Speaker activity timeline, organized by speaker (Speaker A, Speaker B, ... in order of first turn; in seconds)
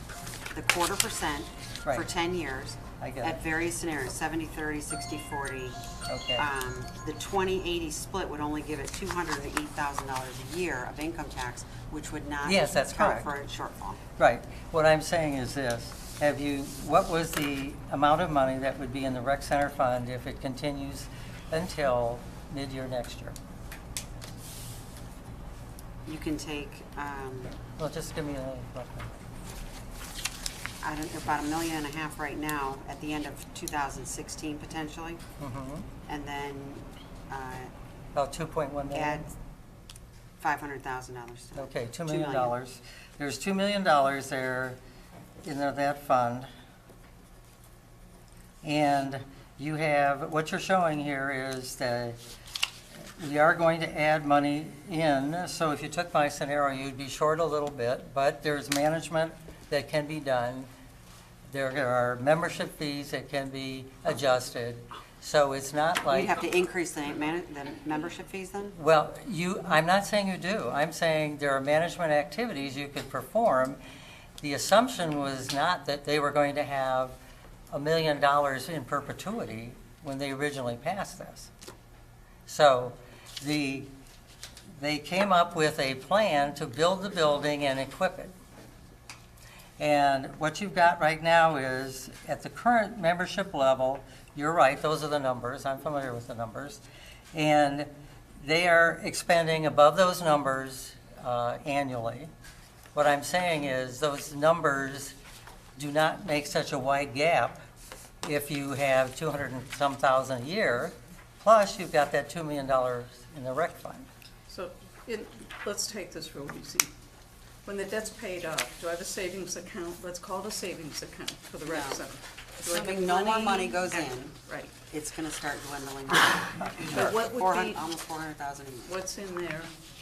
Speaker A: 0.5-5.8, 6.4-14.0, 26.1-27.6, 30.8-35.2, 36.1-37.7, 38.9-39.3, 40.4-42.5, 66.1-68.8, 121.6-122.0, 122.6-124.4, 124.9-129.0
Speaker B: 3.0-3.4, 6.1-6.5, 12.4-13.3, 14.2-23.4, 27.6-29.1, 35.4-35.9, 38.1-39.2, 41.5-44.8, 45.4-46.5, 48.6-52.2, 53.2-60.7, 61.5-66.3, 68.8-73.8, 74.4-77.2, 77.7-81.5, 82.5-83.9, 84.8-88.3, 89.8-96.8, 97.3-102.3, 102.9-105.2, 105.8-107.6, 108.2-114.1
Speaker C: 114.5-116.9, 117.6-124.7, 126.9-127.8, 128.9-129.7